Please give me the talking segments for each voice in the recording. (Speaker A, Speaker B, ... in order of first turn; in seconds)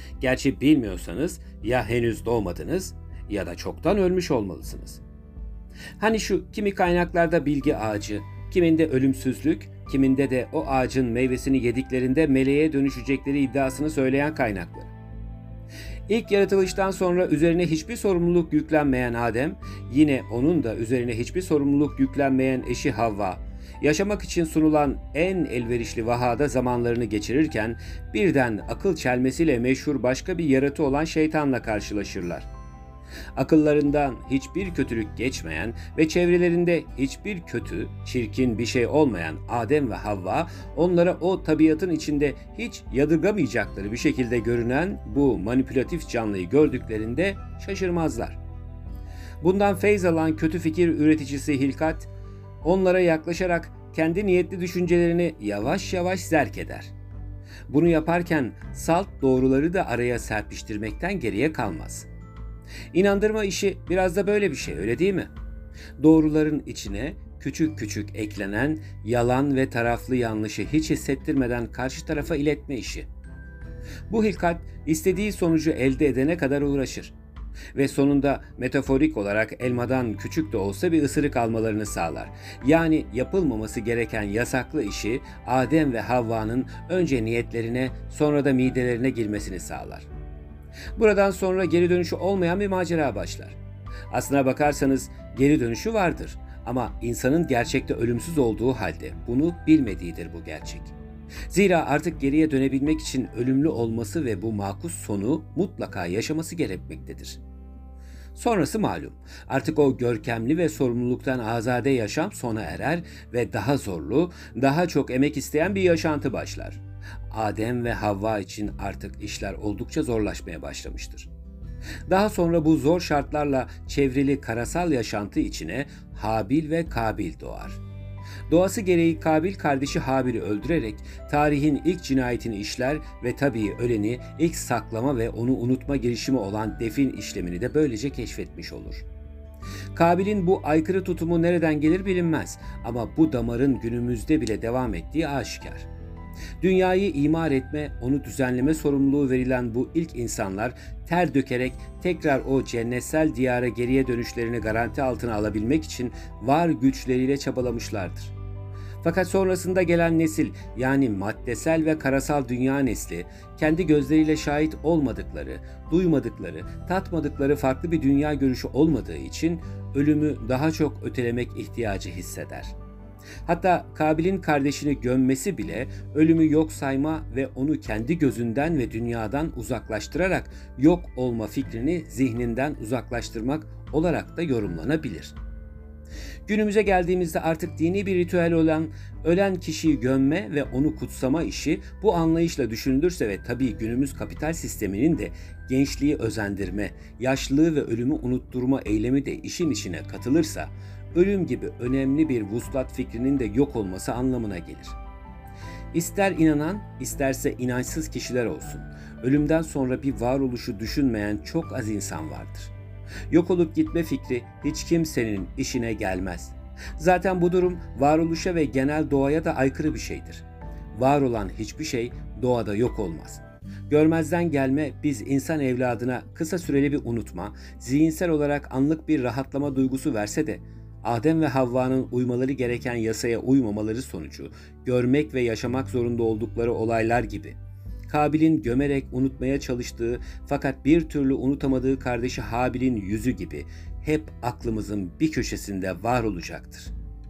Speaker A: 0.2-5.0, 6.0-14.9, 16.1-32.5, 33.4-48.4, 49.4-52.1, 52.6-56.9, 57.7-62.1, 62.9-65.3, 66.0-73.1, 74.1-77.2, 77.7-90.1, 91.0-93.6, 94.1-100.9, 101.5-107.4, 108.3-121.3, 122.1-127.8, 128.5-139.1, 139.9-145.9, 146.6-158.3, 159.0-172.8, 173.5-185.4, 186.5-205.0, 205.9-212.7, 213.3-237.6, 238.1-246.9